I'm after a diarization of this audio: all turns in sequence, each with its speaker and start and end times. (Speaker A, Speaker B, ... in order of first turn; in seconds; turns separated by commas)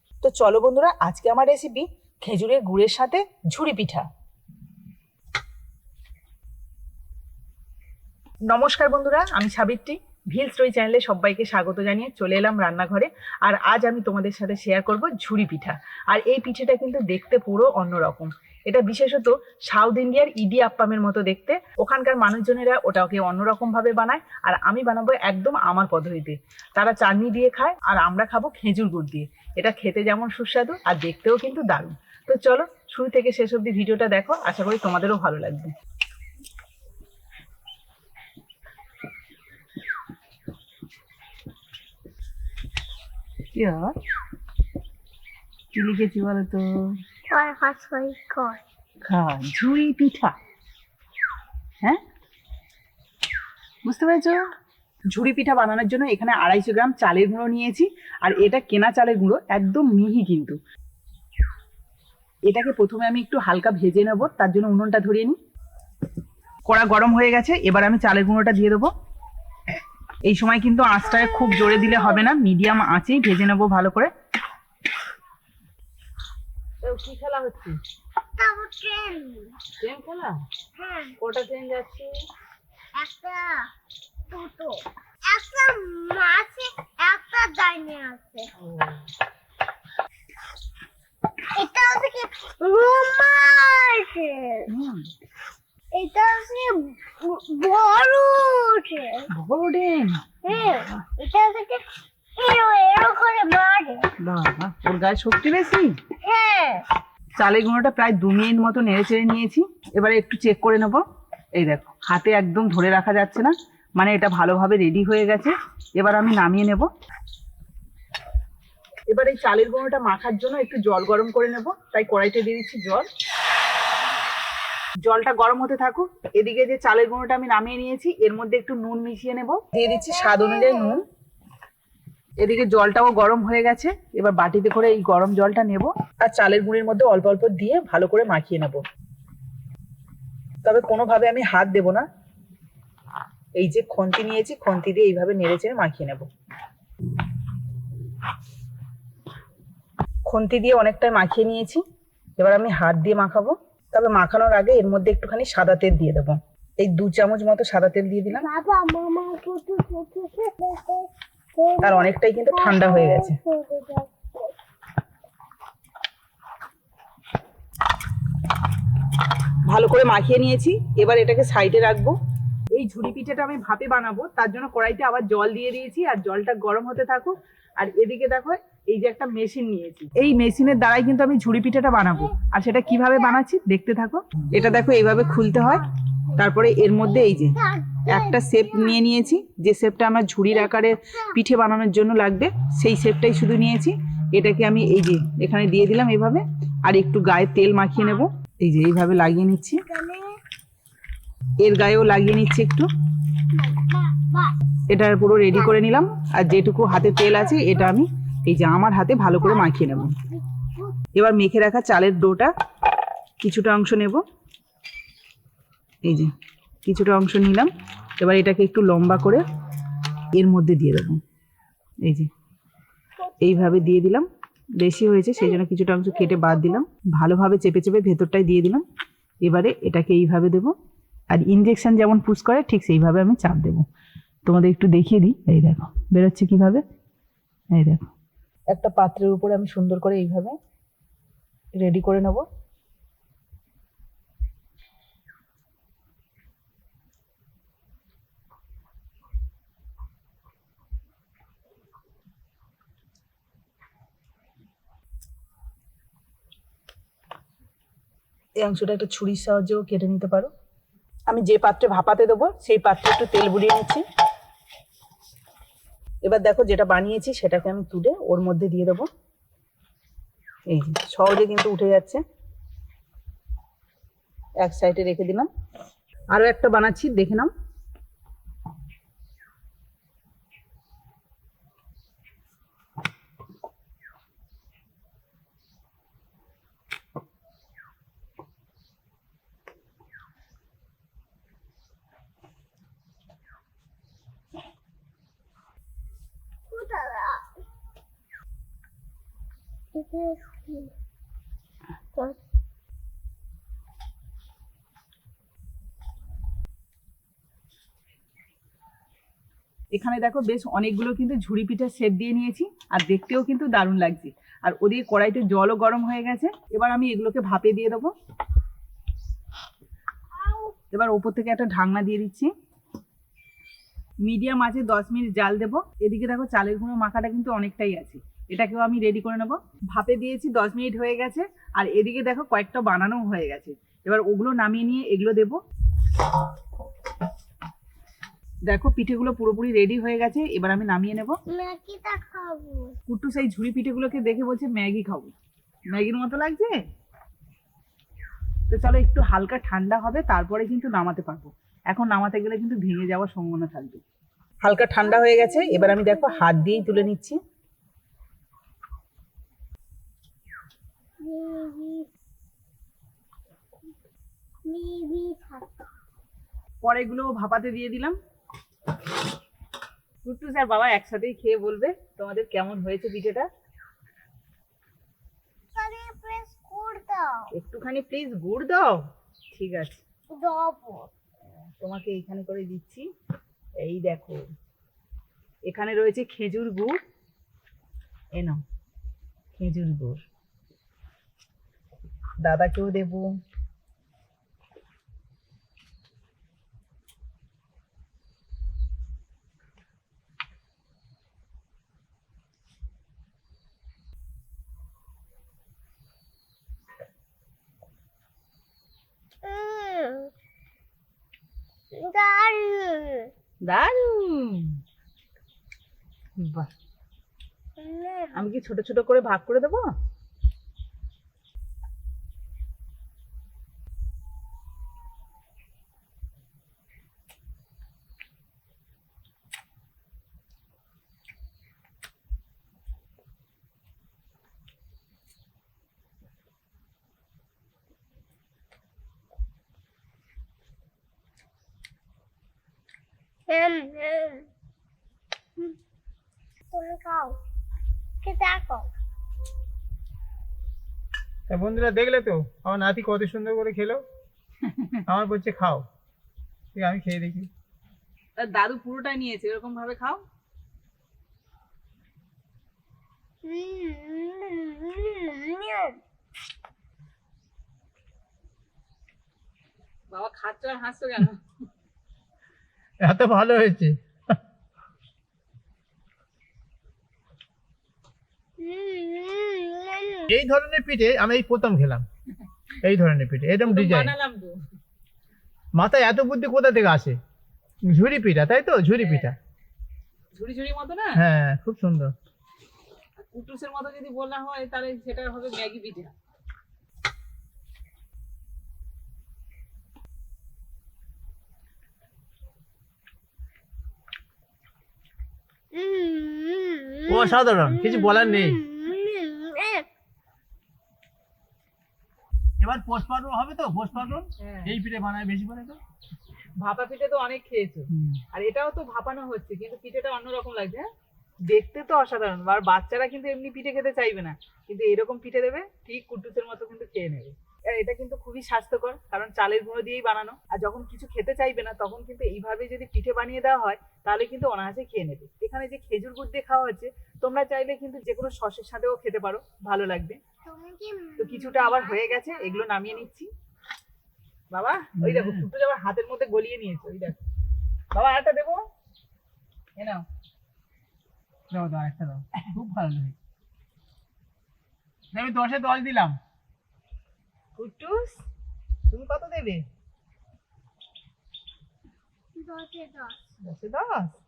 Speaker A: 0.2-4.0, Speaker A: 8.5-35.7, Speaker A: 43.5-43.9, Speaker A: 45.7-46.7, Speaker B: 47.3-48.6, Speaker A: 49.0-50.3, Speaker A: 53.8-54.4, Speaker A: 55.1-60.6, Speaker A: 62.5-65.3, Speaker A: 66.7-68.9, Speaker A: 70.2-74.1, Speaker A: 76.8-77.8, Speaker B: 78.4-79.6, Speaker A: 79.8-80.4, Speaker B: 80.8-81.1, Speaker A: 81.2-82.1, Speaker B: 83.0-83.7, Speaker B: 84.3-88.5, Speaker A: 88.6-89.0, Speaker B: 91.5-94.7, Speaker A: 94.7-95.0, Speaker B: 95.9-99.3, Speaker A: 99.3-101.0, Speaker B: 100.5-101.8, Speaker B: 102.4-104.1, Speaker A: 104.2-105.9, Speaker B: 106.2-106.8, Speaker A: 107.4-111.0, Speaker A: 111.5-116.9, Speaker A: 119.1-123.1, Speaker A: 125.0-131.0, Speaker B: 129.8-131.0, Speaker A: 132.4-138.8, Speaker A: 140.6-142.0, Speaker A: 143.6-146.3, Speaker A: 150.2-151.8, Speaker A: 152.4-158.5, Speaker B: 158.3-164.5, Speaker A: 161.8-163.4, Speaker A: 169.7-172.2, Speaker A: 172.7-199.8, Speaker B: 184.6-185.6, Speaker B: 187.3-189.1, Speaker B: 199.9-200.4, Speaker A: 201.6-202.9, Speaker B: 203.5-204.5, Speaker A: 204.9-210.2, Speaker B: 209.4-211.0, Speaker A: 211.1-212.5, Speaker A: 213.4-214.2, Speaker A: 216.0-216.3, Speaker A: 216.8-219.4, Speaker A: 220.3-221.2, Speaker A: 222.0-222.3, Speaker A: 223.4-224.3, Speaker A: 224.8-228.8, Speaker B: 226.2-226.8, Speaker A: 229.4-230.7, Speaker A: 231.3-233.8, Speaker A: 234.4-236.8, Speaker A: 237.7-238.1, Speaker A: 238.7-240.6, Speaker A: 241.8-242.4, Speaker A: 258.6-260.5, Speaker A: 261.3-264.0, Speaker A: 266.2-269.1, Speaker A: 270.7-272.2, Speaker A: 274.6-275.5, Speaker A: 276.3-277.5, Speaker B: 296.7-297.5, Speaker B: 299.9-300.9, Speaker A: 309.9-318.1, Speaker B: 320.4-320.7, Speaker A: 320.9-322.5, Speaker A: 324.2-335.6, Speaker A: 338.7-341.4, Speaker B: 341.5-342.9, Speaker A: 343.1-345.3, Speaker A: 345.9-346.7, Speaker A: 348.7-354.0, Speaker A: 354.6-357.4, Speaker B: 355.0-357.1, Speaker B: 361.2-362.1, Speaker B: 364.6-365.9, Speaker A: 366.8-368.2, Speaker A: 370.2-373.5, Speaker B: 375.8-377.5, Speaker A: 377.5-380.0, Speaker B: 380.3-381.1, Speaker A: 381.8-383.0, Speaker A: 383.8-384.4, Speaker A: 385.7-386.9, Speaker A: 388.3-388.6, Speaker A: 389.6-390.2, Speaker A: 392.4-393.3, Speaker B: 409.4-410.3, Speaker B: 411.9-413.3, Speaker A: 413.6-414.8, Speaker A: 416.4-416.7, Speaker B: 417.8-418.4, Speaker A: 418.3-419.9, Speaker B: 443.5-444.5, Speaker B: 446.7-447.4, Speaker B: 448.2-448.9, Speaker C: 451.5-454.0, Speaker A: 454.6-455.0, Speaker C: 455.1-455.8, Speaker C: 456.7-457.5, Speaker A: 458.4-460.2, Speaker B: 463.4-466.0, Speaker A: 470.1-471.4, Speaker C: 473.0-474.0, Speaker B: 478.6-480.3, Speaker C: 480.3-482.1, Speaker C: 482.8-484.1, Speaker A: 483.6-484.6, Speaker C: 485.7-487.2, Speaker C: 487.8-489.4, Speaker A: 488.9-489.3, Speaker A: 490.3-491.2, Speaker C: 491.1-492.1, Speaker A: 493.2-496.1, Speaker B: 505.7-509.9, Speaker C: 507.1-508.6, Speaker C: 512.6-515.8, Speaker A: 514.4-514.7, Speaker A: 516.6-520.9, Speaker A: 521.5-540.2, Speaker B: 540.4-542.8, Speaker A: 541.2-543.3, Speaker A: 544.5-547.2, Speaker C: 545.0-545.5, Speaker A: 547.9-548.6, Speaker A: 549.8-550.0, Speaker C: 551.5-553.1, Speaker C: 555.1-556.2, Speaker A: 557.5-558.2, Speaker A: 558.9-559.6, Speaker B: 562.4-563.2, Speaker A: 563.4-564.1